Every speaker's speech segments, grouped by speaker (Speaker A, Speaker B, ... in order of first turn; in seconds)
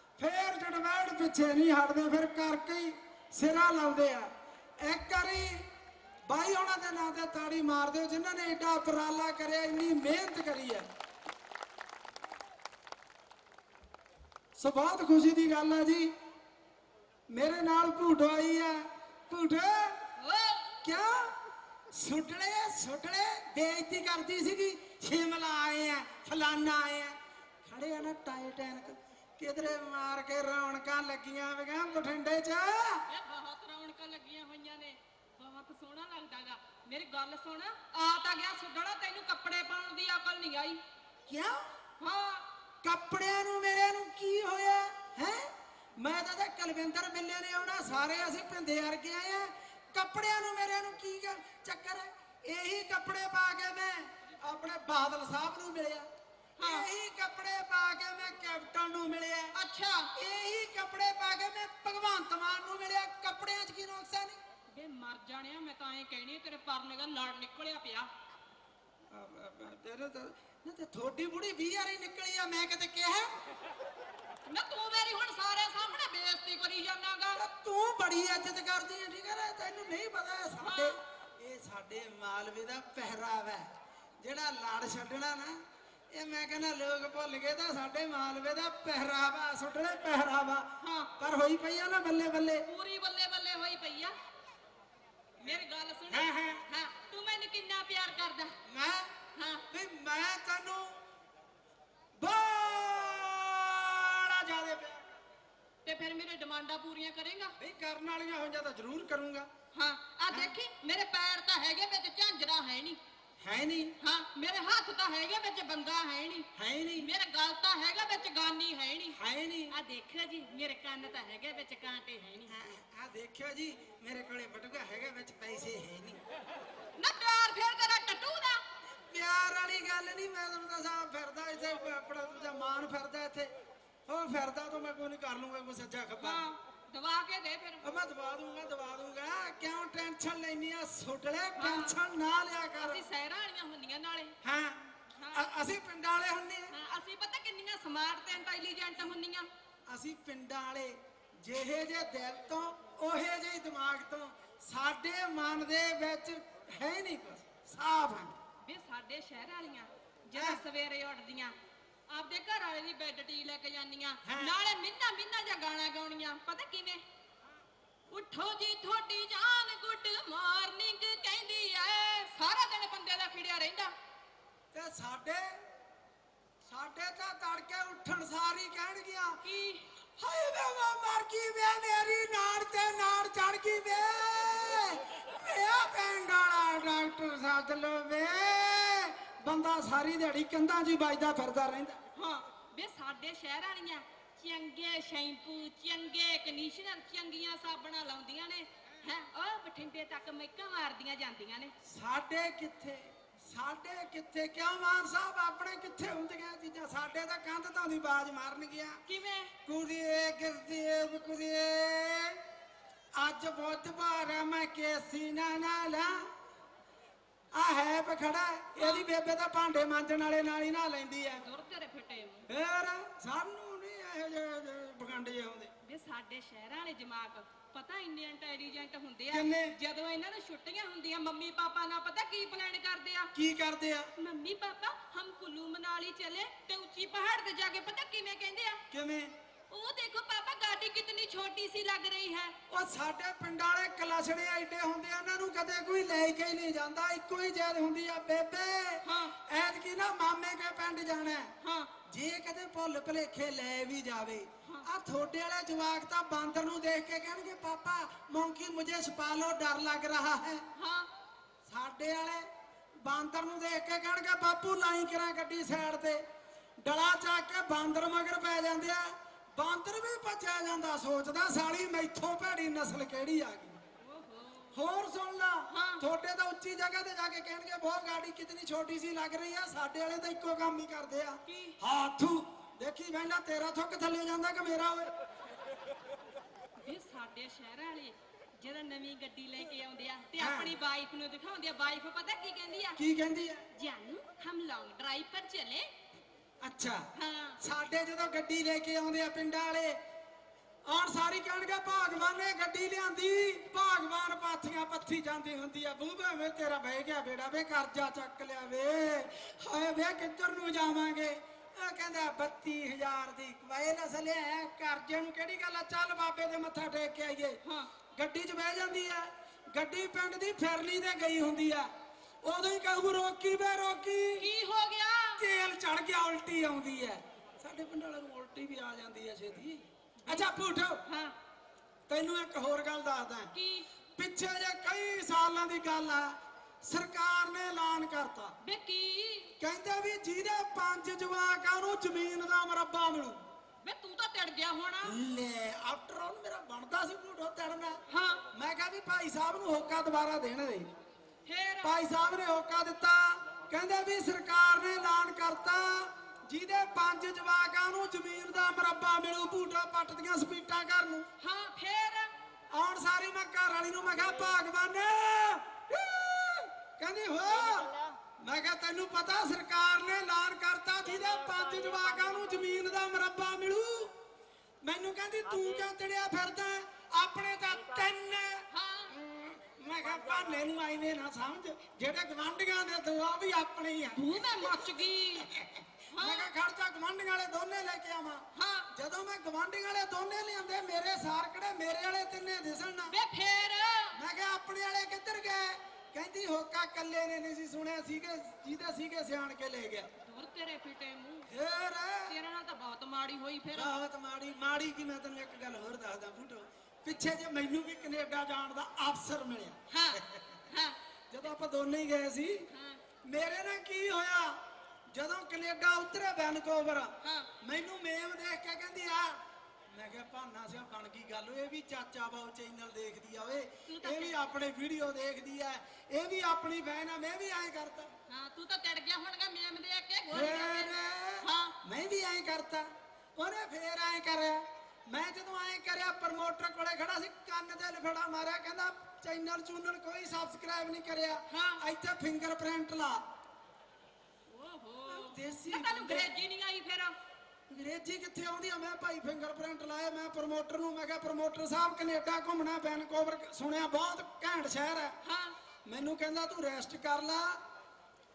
Speaker A: 0.2-4.3, 4.8-5.6, 6.3-10.9, 14.6-16.1, 17.3-20.0, 20.8-21.4, 21.9-33.0, 41.3-41.7, 42.8-56.1, 56.6-59.5, 60.1-64.4, 69.1-73.3, 77.3-83.7, 84.2-85.6, 86.1-92.7, 96.1-96.6, 98.7-99.1, 99.7-101.0, 102.2-105.0, 107.6-109.5, 110.3-110.5, 113.4-114.0, 116.6-117.1, 119.2-119.8, 122.5-126.2, 128.9-133.5, 134.1-136.5, 137.8-143.1, 144.4-146.8, 149.9-158.3, 160.3-160.6, 164.2-164.5, 174.7-175.6, 176.6-179.4, 180.2-192.0, 201.8-209.0, 209.7-212.4, 213.2-216.3, 217.5-221.4, 222.5-225.7, 229.3-229.8, 233.3-234.1, 238.9-239.3, 242.7-251.5, 252.1-260.7, 261.7-262.5, 263.0-266.2, 266.8-273.8, 274.7-285.1, 290.4-290.8, 293.0-293.6, 296.6-297.1, 297.6-300.0, 300.9-317.6, 318.2-321.9, 322.4-324.5, 325.4-331.0, 332.1-333.5, 334.2-338.5, 339.6-343.4, 345.0-348.0, 348.5-350.9, 351.8-361.3, 362.7-374.1, 374.8-393.2, 394.1-400.1, 401.5-402.4, 403.7-410.6, 411.3-412.7, 413.3-414.6, 415.1-419.4, 419.9-428.1, 430.3-443.2, 445.1-446.3, 447.7-455.1, 455.9-457.6
Speaker B: 20.2-20.7, 33.1-40.8, 42.0-42.5, 56.6-56.9, 59.5-60.1, 64.7-68.1, 74.5-77.4, 80.6-81.0, 90.8-91.1, 92.7-94.2, 95.4-98.6, 99.3-99.7, 105.8-107.5, 109.7-113.0, 114.0-119.2, 119.7-122.6, 127.0-128.6, 136.2-137.9, 141.6-142.0, 142.8-144.3, 145.2-145.5, 146.7-149.5, 158.6-161.6, 162.1-167.0, 168.1-173.9, 179.4-179.9, 192.2-201.7, 209.1-209.5, 218.8-219.1, 221.4-222.5, 225.8-233.3, 234.2-238.8, 239.7-242.6, 249.0-249.3, 251.6-251.9, 260.8-261.1, 274.0-274.8, 275.7-276.0, 281.5-281.8, 286.8-293.0, 293.8-295.9, 297.1-297.6, 317.6-317.9, 324.4-325.5, 330.2-330.5, 331.1-331.4, 333.5-333.9, 338.6-339.5, 343.8-345.2, 348.1-348.4, 351.5-352.0, 361.4-362.3, 378.7-379.1, 384.1-385.5, 386.1-386.5, 388.6-388.9, 393.1-394.2, 400.2-401.5, 402.3-404.0, 409.9-411.0, 412.7-413.0, 417.2-417.5, 423.9-424.4, 428.3-431.8, 441.5-441.8, 444.5-447.1, 455.2-455.6